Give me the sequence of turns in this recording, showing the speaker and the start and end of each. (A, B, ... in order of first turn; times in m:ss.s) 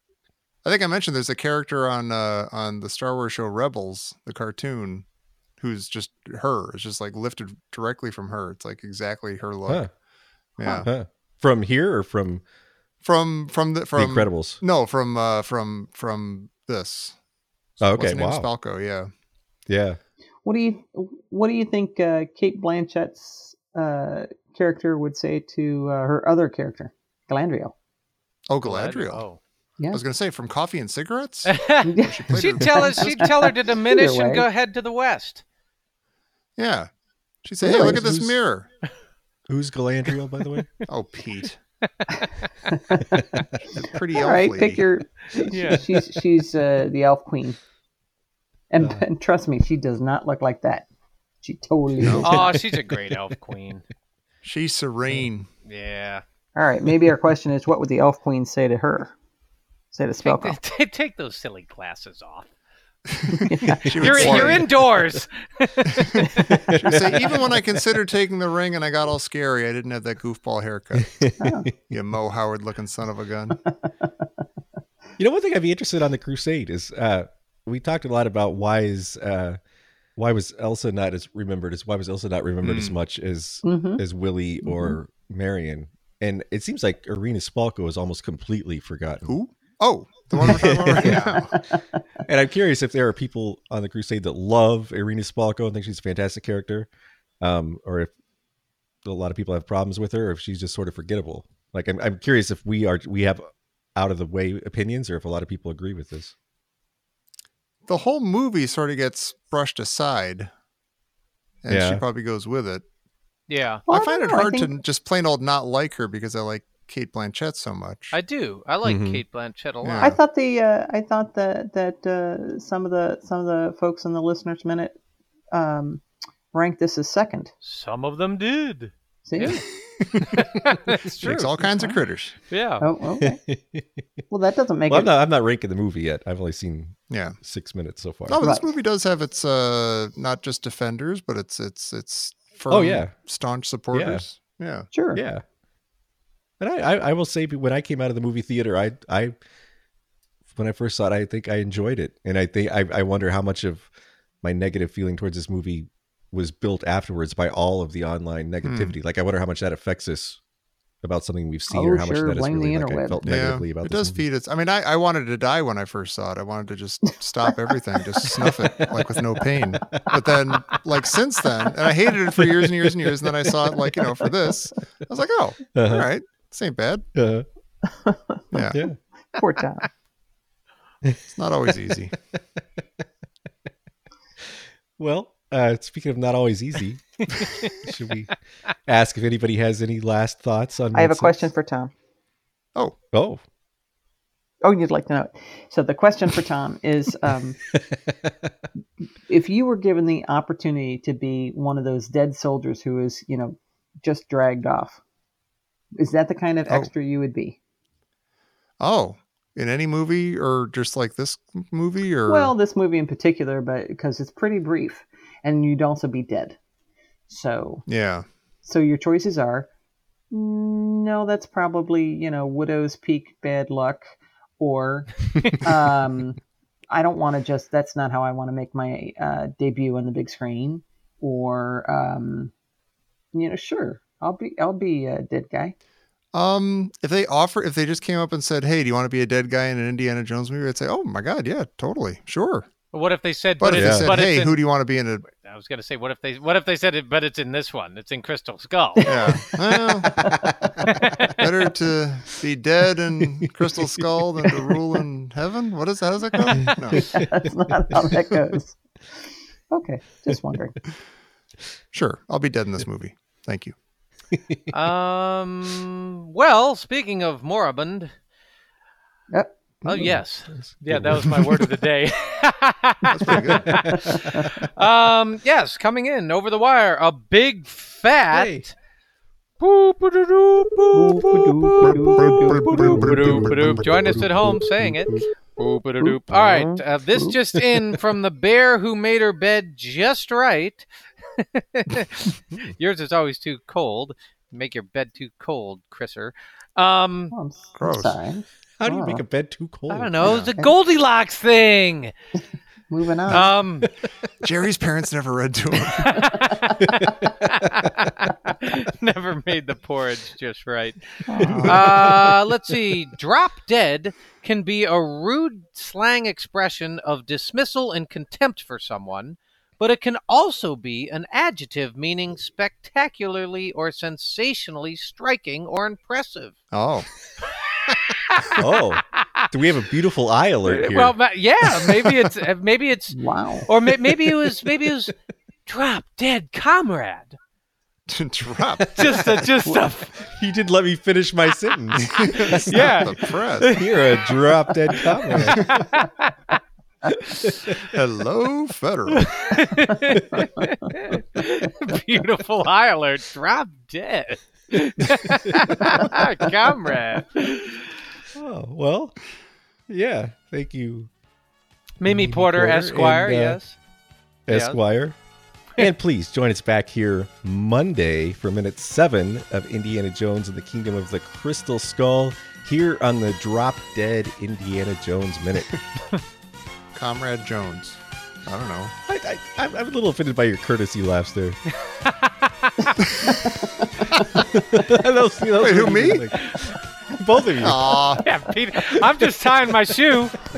0:00.6-0:05.0 A
0:05.6-0:09.9 A
0:09.6-0:09.9 B
0:10.6-0:10.9 A
0:10.6-0:10.9 C
0:10.8-0:12.4 B
0:13.0-0:17.2 A
0:14.0-0:14.6 B
0:17.8-0:19.1 A
0:17.8-0:18.5 B
0:19.7-0:20.0 B
0:20.4-0:27.7 C
0:28.5-0:29.2 A
0:28.6-0:29.4 D
0:29.9-0:33.2 A
0:31.5-0:35.4 D
0:31.8-0:34.4 C
0:36.6-0:36.9 A
0:37.4-0:38.7 A
0:37.6-0:38.0 C
0:37.7-0:38.4 B
0:39.5-0:40.7 B
0:40.9-0:41.6 A
0:42.1-0:43.4 C
0:43.7-0:44.8 A
0:44.1-0:47.6 C
0:45.4-0:45.9 D
0:48.7-0:50.9 C
0:51.4-0:52.5 C
0:52.0-0:52.6 B
0:52.0-0:52.3 A
0:52.2-0:53.8 D
0:54.4-0:55.5 A
0:55.6-0:56.2 D
0:56.6-0:59.1 C
0:59.9-1:00.6 C
1:00.2-1:02.5 D
1:03.2-1:04.6 A
1:03.4-1:04.5 C
1:03.7-1:06.5 D
1:05.9-1:11.2 A
1:06.5-1:07.6 B
1:11.0-1:11.7 B
1:11.4-1:11.7 C
1:11.9-1:13.6 A
1:13.6-1:14.1 C
1:15.2-1:19.6 B
1:20.2-1:29.3 B
1:22.6-1:22.9 A
1:23.6-1:24.0 C
1:24.6-1:25.0 C
1:29.2-1:31.5 A
1:30.3-1:31.4 B
1:31.0-1:32.0 C
1:32.2-1:36.9 B
1:37.4-1:38.1 B
1:39.0-1:46.3 B
1:47.9-1:50.5 A
1:51.6-1:52.8 A
1:51.7-1:52.0 B
1:53.5-1:53.8 D
1:53.9-1:54.8 C
1:53.9-1:58.2 A
1:58.1-2:00.1 D
1:58.8-1:59.2 B
1:59.8-2:00.2 A
2:00.0-2:05.0 C
2:05.5-2:07.5 C
2:07.6-2:09.6 D
2:09.2-2:09.6 C
2:10.1-2:10.4 A
2:10.2-2:11.5 D
2:11.0-2:12.4 A
2:11.6-2:12.0 C
2:12.5-2:12.8 D
2:12.8-2:13.4 C
2:13.2-2:14.0 B
2:14.3-2:15.1 C
2:14.9-2:18.4 B
2:17.1-2:17.4 A
2:18.3-2:24.9 A
2:18.4-2:18.7 C
2:22.7-2:23.1 B
2:23.9-2:24.2 B
2:24.9-2:25.2 C
2:25.1-2:25.4 B
2:26.6-2:29.4 B
2:30.5-2:33.9 B
2:34.4-2:40.4 B
2:38.6-2:38.9 A
2:41.0-2:44.2 B
2:41.7-2:43.2 C
2:43.2-2:57.1 A
2:47.7-2:48.9 C
2:52.4-2:53.7 B
2:55.7-2:56.1 B
2:57.1-2:57.4 B
2:57.9-2:58.5 C
2:58.5-2:58.8 A
2:58.7-2:59.0 B
2:59.4-2:59.9 C
3:01.0-3:02.6 B
3:01.3-3:02.1 A
3:04.4-3:08.3 B
3:08.9-3:11.5 B
3:10.9-3:11.9 C
3:13.1-3:13.4 B
3:14.6-3:17.6 C
3:17.7-3:18.5 B
3:19.3-3:25.0 C
3:26.0-3:27.6 C
3:28.8-3:32.5 A
3:32.3-3:36.6 C
3:37.3-3:37.8 C
3:37.9-3:38.2 A
3:38.6-3:39.7 C
3:40.3-3:46.4 C
3:46.9-3:52.5 C
3:53.3-3:55.7 C
3:56.3-4:02.7 A
4:02.9-4:04.6 D
4:03.6-4:05.2 A
4:03.7-4:04.1 B
4:05.2-4:09.4 D
4:09.1-4:10.2 A
4:10.0-4:11.3 C
4:10.1-4:10.5 B
4:11.3-4:17.1 A
4:16.6-4:18.4 B
4:16.9-4:18.8 C
4:19.7-4:20.8 C
4:21.9-4:23.7 A
4:24.3-4:24.7 B
4:24.7-4:28.1 D
4:29.3-4:30.1 C
4:29.9-4:38.7 D
4:30.1-4:31.7 B
4:33.1-4:33.9 A
4:33.5-4:34.6 B
4:33.9-4:34.6 C
4:38.3-4:38.6 B
4:39.6-4:50.9 D
4:40.9-4:43.6 C
4:41.2-4:45.2 B
4:46.4-4:46.6 B
4:51.4-4:57.3 D
4:57.3-4:59.2 C
4:57.8-4:58.2 A
4:58.8-5:00.5 B
4:59.9-5:02.1 D
5:00.2-5:00.5 A
5:02.9-5:03.5 C
5:03.3-5:03.9 D
5:03.8-5:04.1 B
5:04.4-5:06.4 A
5:05.9-5:26.6 D
5:06.8-5:07.3 B
5:11.3-5:12.0 C
5:11.4-5:11.8 A
5:11.4-5:12.3 B
5:26.7-5:27.1 A
5:27.8-5:29.4 D
5:28.6-5:31.2 B
5:30.6-5:33.2 D
5:31.8-5:32.1 B
5:33.1-5:33.7 C
5:33.7-5:35.1 D
5:35.6-5:37.4 D
5:38.1-5:39.0 A
5:38.8-5:39.4 B
5:39.0-5:40.1 D
5:40.2-5:43.1 B
5:42.0-5:43.7 A
5:42.5-5:46.6 D
5:43.7-5:45.7 B
5:47.4-5:47.7 B
5:47.8-5:49.3 A
5:49.2-5:57.9 D
5:55.4-5:55.7 B
5:58.3-5:59.1 B
5:59.9-6:01.1 B
6:02.0-6:03.8 D
6:02.0-6:03.6 B
6:04.5-6:05.2 B
6:04.5-6:04.8 D
6:05.8-6:15.8 B
6:16.9-6:18.9 A
6:19.1-6:21.6 B
6:21.9-6:23.0 D
6:23.4-6:24.1 C
6:24.4-6:28.1 B
6:25.6-6:26.3 A
6:27.6-6:28.2 A
6:28.2-6:30.4 D